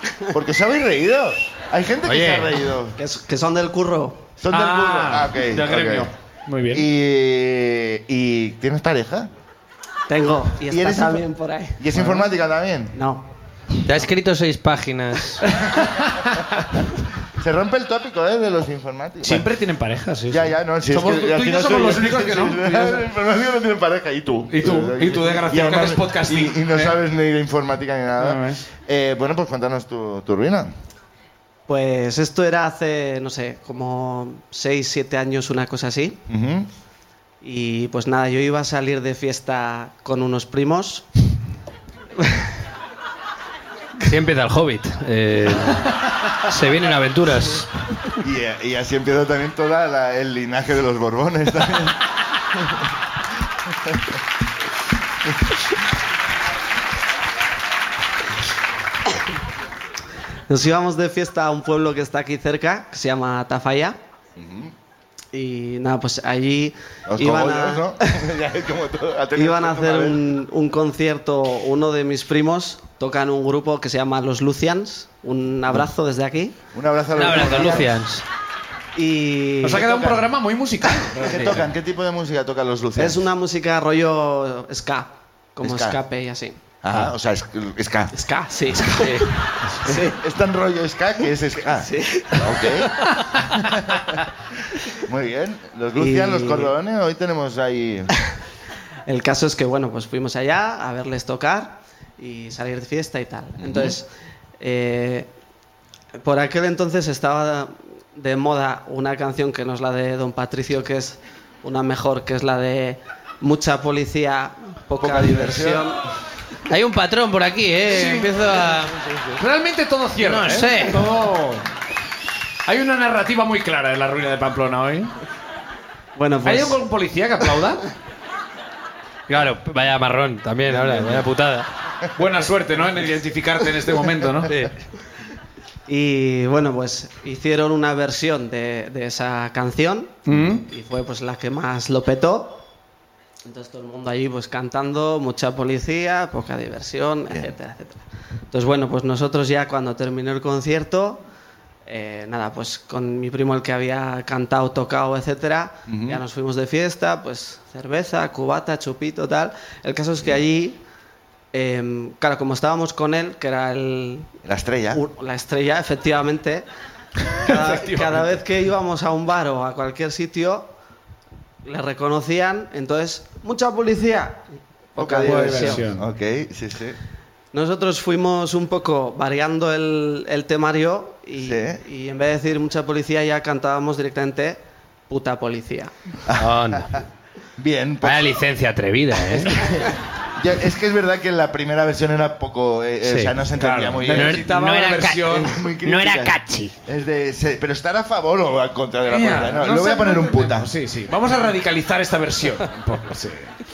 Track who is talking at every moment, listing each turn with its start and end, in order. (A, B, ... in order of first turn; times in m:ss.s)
0:00.3-0:03.0 A
0:02.0-0:02.5 B
0:03.0-0:04.3 C
0:04.4-0:06.1 A
0:04.5-0:06.9 D
0:06.7-0:09.3 A
0:10.1-0:11.9 C
0:10.7-0:13.0 A
0:12.9-0:13.3 C
0:13.8-0:15.5 B
0:15.6-0:16.4 D
0:17.4-0:19.5 A
0:19.2-0:23.1 D
0:20.3-0:30.7 A
0:24.5-0:27.0 D
0:28.2-0:28.6 D
0:31.7-0:36.2 C
0:36.3-0:36.7 A
0:37.4-0:41.1 C
0:42.2-0:42.5 C
0:44.0-0:47.7 B
0:48.2-0:52.0 A
1:00.5-1:04.0 C
1:04.4-1:04.7 A
1:05.3-1:08.2 C
1:07.1-1:10.2 A
1:09.4-1:16.6 C
1:16.7-1:18.0 A
1:17.2-1:18.2 B
1:19.0-1:20.0 C
1:19.6-1:21.7 D
1:19.8-1:20.2 A
1:21.2-1:23.3 A
1:23.0-1:26.6 C
1:25.6-1:26.0 A
1:26.8-1:28.1 A
1:28.1-1:30.2 C
1:28.7-1:29.3 B
1:29.9-1:34.1 A
1:31.7-1:32.9 C
1:34.9-1:38.1 A
1:36.0-1:36.8 C
1:39.1-1:44.1 C
1:43.6-1:44.0 A
1:44.6-1:45.3 C
1:46.2-1:56.0 C
1:55.0-1:55.8 A
1:56.7-1:59.0 B
1:57.9-1:58.3 D
1:59.4-2:01.7 D
2:00.2-2:01.0 B
2:02.7-2:05.1 D
2:06.2-2:06.8 C
2:06.4-2:07.8 D
2:09.3-2:11.7 B
2:12.2-2:14.5 D
2:14.4-2:14.7 B
2:15.9-2:22.6 C
2:20.3-2:20.6 D
2:23.4-2:31.2 C
2:31.9-2:40.8 C
2:35.9-2:36.2 A
2:41.5-2:44.3 C
2:44.4-2:45.0 A
2:44.9-2:46.7 C
2:47.4-2:48.3 D
2:47.4-2:50.7 C
2:51.6-2:55.9 C
2:55.0-2:57.0 A
2:55.2-2:56.0 D
2:57.5-3:05.9 C
3:01.4-3:01.8 A
3:06.3-3:07.0 A
3:06.4-3:06.9 B
3:07.6-3:08.4 A
3:08.0-3:09.6 B
3:09.5-3:14.5 A
3:13.0-3:13.3 B
3:13.6-3:15.6 D
3:14.1-3:16.7 B
3:15.3-3:20.7 A
3:19.1-3:23.5 D